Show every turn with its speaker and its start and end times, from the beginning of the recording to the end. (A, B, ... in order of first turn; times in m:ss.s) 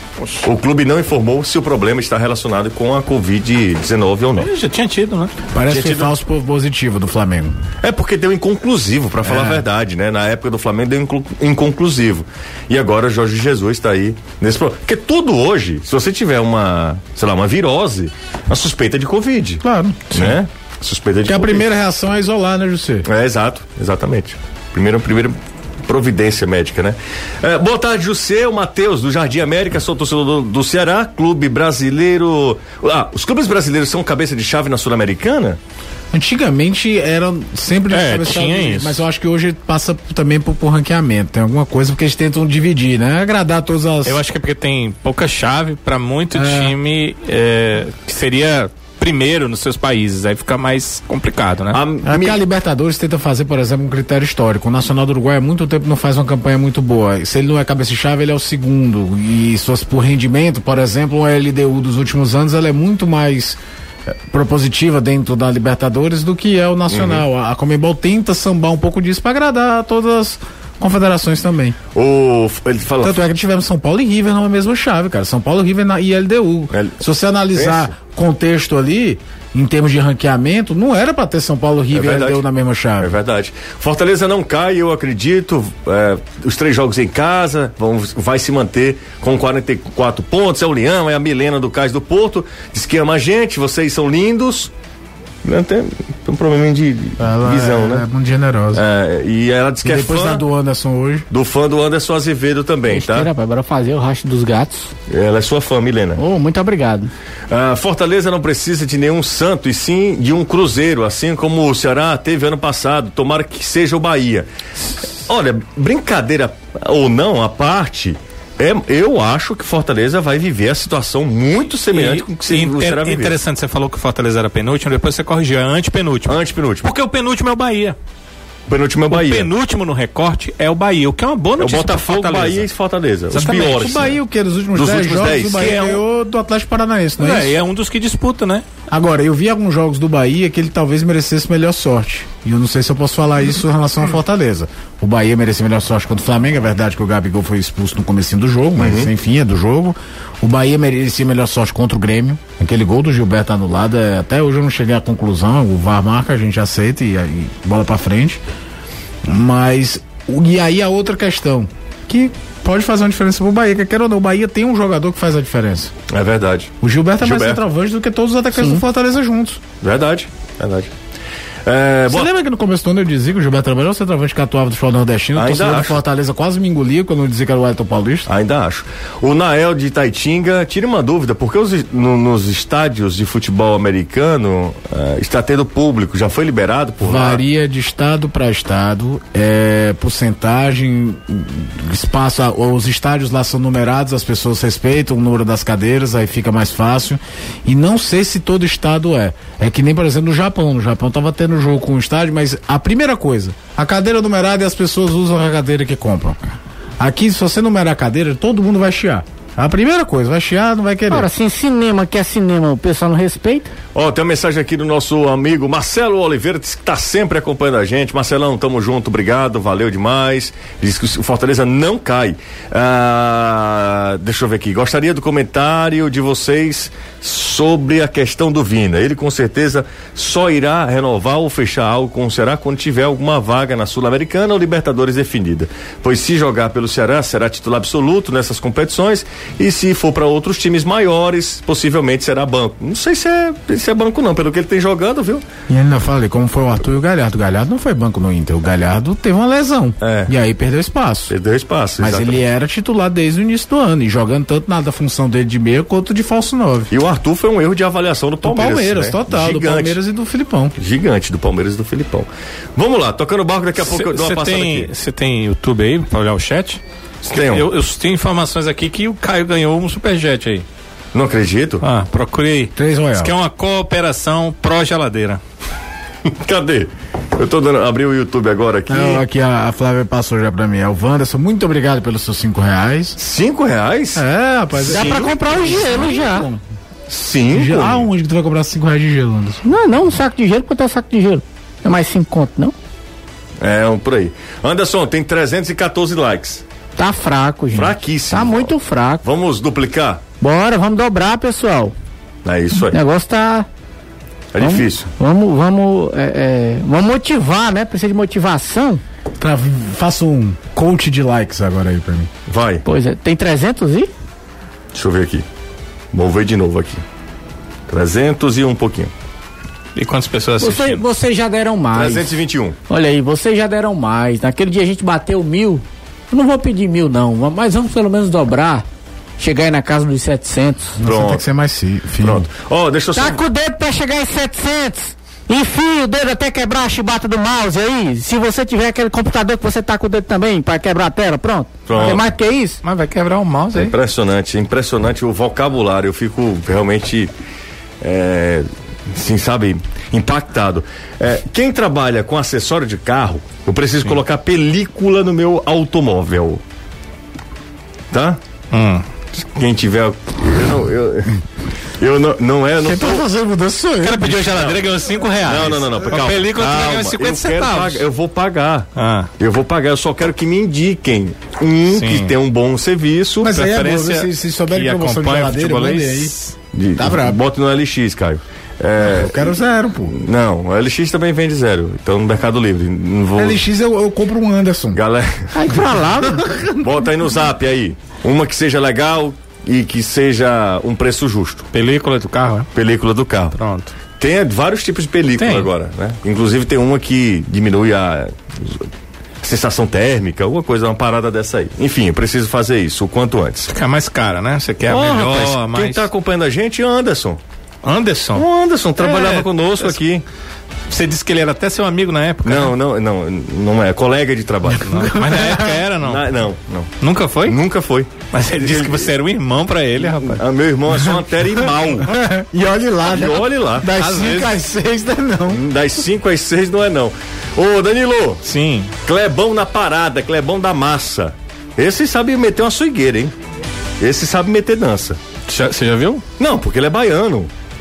0:00.4-0:04.5 A
0:04.4-0:05.3 B
0:05.5-0:07.6 C
0:05.7-0:06.1 A
0:07.8-0:21.6 A
0:09.2-0:09.6 C
0:19.6-0:20.4 C
0:21.2-0:23.1 C
0:23.0-0:35.6 A
0:36.1-0:44.2 C
0:37.9-0:39.0 B
0:44.0-0:51.8 B
0:46.3-0:46.8 C
0:51.7-0:52.4 A
0:52.0-1:11.8 C
1:06.9-1:07.2 A
1:11.9-1:13.2 A
1:13.0-1:23.2 C
1:16.7-1:17.0 A
1:17.5-1:17.9 A
1:21.9-1:22.4 A
1:23.0-1:34.7 A
1:35.4-1:38.0 A
1:37.2-1:38.8 C
1:38.7-1:40.4 A
1:39.8-1:41.3 C
1:41.3-1:43.3 A
1:42.9-1:44.9 D
1:45.1-1:46.2 A
1:46.2-1:47.1 D
1:47.5-1:54.5 A
1:55.2-2:03.3 A
2:01.9-2:08.0 B
2:06.3-2:06.9 A
2:08.7-2:09.5 A
2:09.1-2:12.6 B
2:11.6-2:14.1 A
2:13.3-2:17.6 C
2:13.3-2:13.6 B
2:14.7-2:15.8 A
2:15.4-2:16.0 B
2:17.2-2:18.6 B
2:18.9-2:38.4 C
2:28.8-2:29.1 A
2:39.2-2:45.9 C
2:46.1-2:47.6 A
2:46.8-2:49.6 C
2:49.8-2:50.9 A
2:51.6-2:52.3 A
2:52.1-2:58.3 C
2:55.4-2:56.0 A
2:58.3-3:07.4 A
3:07.0-3:26.4 C
3:27.0-3:31.3 C
3:31.1-3:33.7 D
3:33.9-4:05.4 A
4:05.7-4:11.3 C
4:10.0-4:10.3 A
4:11.3-4:12.4 A
4:12.0-4:16.9 C
4:16.9-4:20.0 A
4:18.4-4:20.7 C
4:20.8-4:24.9 A
4:23.8-4:30.6 B
4:27.2-4:27.6 A
4:31.1-4:31.8 A
4:31.8-4:35.4 B
4:32.8-4:33.3 C
4:36.2-4:39.2 A
4:38.9-4:43.2 C
4:43.2-4:44.2 A
4:44.1-4:46.6 C
4:44.8-4:46.5 D
4:47.1-4:48.1 A
4:47.5-4:49.6 C
4:49.6-4:52.7 D
4:53.6-4:56.6 A
4:57.0-4:59.2 D
4:57.7-4:58.7 A
4:59.2-5:00.2 A
5:00.4-5:01.9 D
5:02.4-5:03.0 A
5:02.8-5:03.7 D
5:04.5-5:05.1 A
5:04.6-5:09.0 D
5:09.4-5:12.3 C
5:12.5-5:12.8 A
5:12.8-5:14.1 D
5:14.9-5:15.4 A
5:16.1-5:17.0 A
5:17.9-5:19.1 A
5:20.0-5:21.0 B
5:20.6-5:22.3 D
5:21.9-5:22.8 A
5:22.9-5:28.8 D
5:29.4-5:31.0 D
5:31.0-5:32.5 C
5:31.0-5:31.4 A
5:32.2-5:33.4 A
5:33.1-5:42.8 D
5:41.9-5:42.2 A
5:42.8-5:44.0 B
5:43.7-5:47.3 A
5:48.0-5:56.6 A
5:58.1-5:58.4 A
5:58.7-5:59.0 B
5:59.3-6:01.4 A
6:02.0-6:03.2 A
6:02.8-6:04.5 C
6:04.0-6:08.0 B
6:04.3-6:04.8 A
6:05.4-6:13.5 A
6:09.0-6:09.3 B
6:11.9-6:12.3 B
6:13.4-6:16.3 C
6:13.4-6:16.5 B
6:16.7-6:19.5 A
6:17.0-6:17.4 C
6:19.0-6:20.2 C
6:20.0-6:23.6 A
6:23.4-6:25.0 C
6:24.9-6:25.5 A
6:25.5-6:27.0 D
6:26.8-6:31.7 A
6:31.7-6:32.7 B
6:32.7-6:33.6 A
6:33.5-6:33.9 B
6:34.2-6:38.8 A
6:35.4-6:35.7 B
6:39.4-6:43.7 A
6:43.7-6:46.1 B
6:44.9-6:47.4 A
6:47.8-6:48.4 B
6:48.3-6:50.2 A
6:49.0-6:50.0 B
6:50.9-6:52.7 B
6:52.4-6:56.9 A
6:54.8-6:55.8 C
6:55.0-6:56.2 B
6:57.0-6:57.6 B
6:57.4-6:59.1 A
6:58.3-7:00.4 B
7:00.0-7:02.2 A
7:02.0-7:05.6 C
7:03.0-7:03.9 A
7:03.9-7:04.6 B
7:05.5-7:08.4 A
7:08.4-7:08.9 B
7:09.0-7:13.3 A
7:14.0-7:15.2 A
7:15.5-7:16.2 B
7:16.4-7:17.5 A